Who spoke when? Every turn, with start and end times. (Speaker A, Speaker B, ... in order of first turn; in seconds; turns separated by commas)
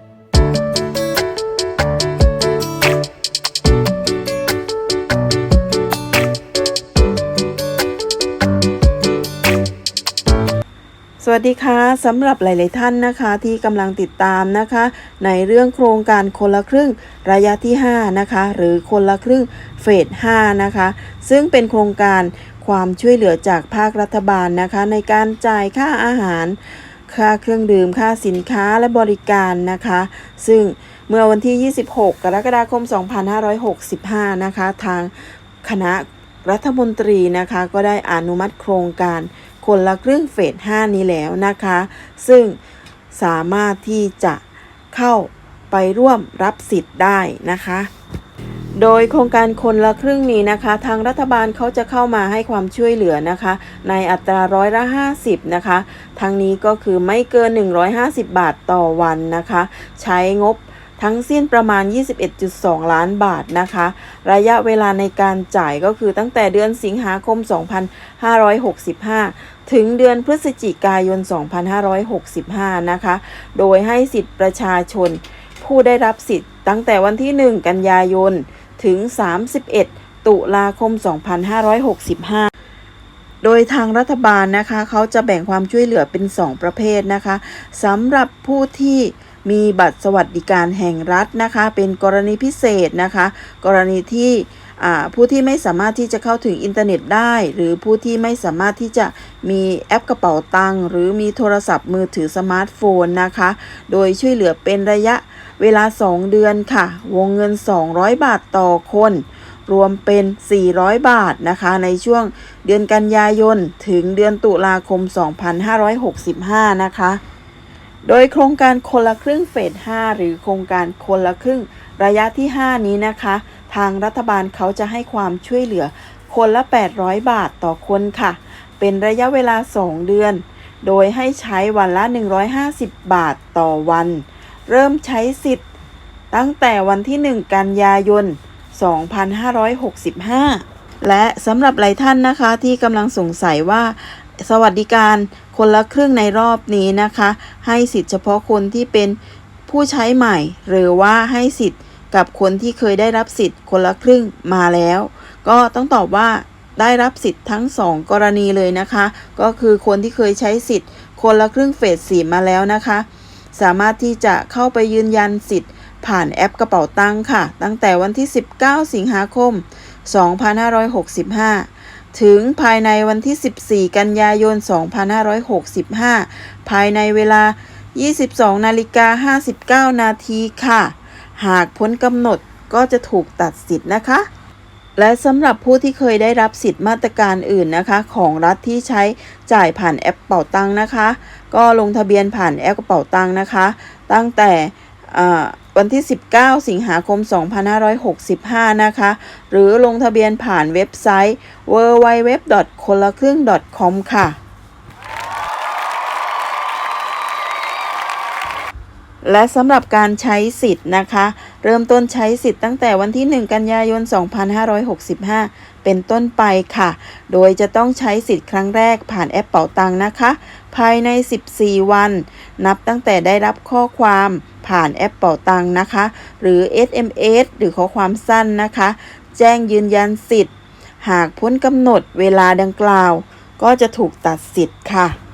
Speaker A: 11.2-42.5, Speaker A: 43.1-47.9, Speaker A: 48.8-82.5, Speaker A: 83.4-117.2, Speaker A: 118.0-135.6, Speaker A: 136.3-149.2, Speaker A: 149.7-184.3, Speaker A: 185.0-204.4, Speaker A: 209.2-230.5, Speaker A: 231.0-235.2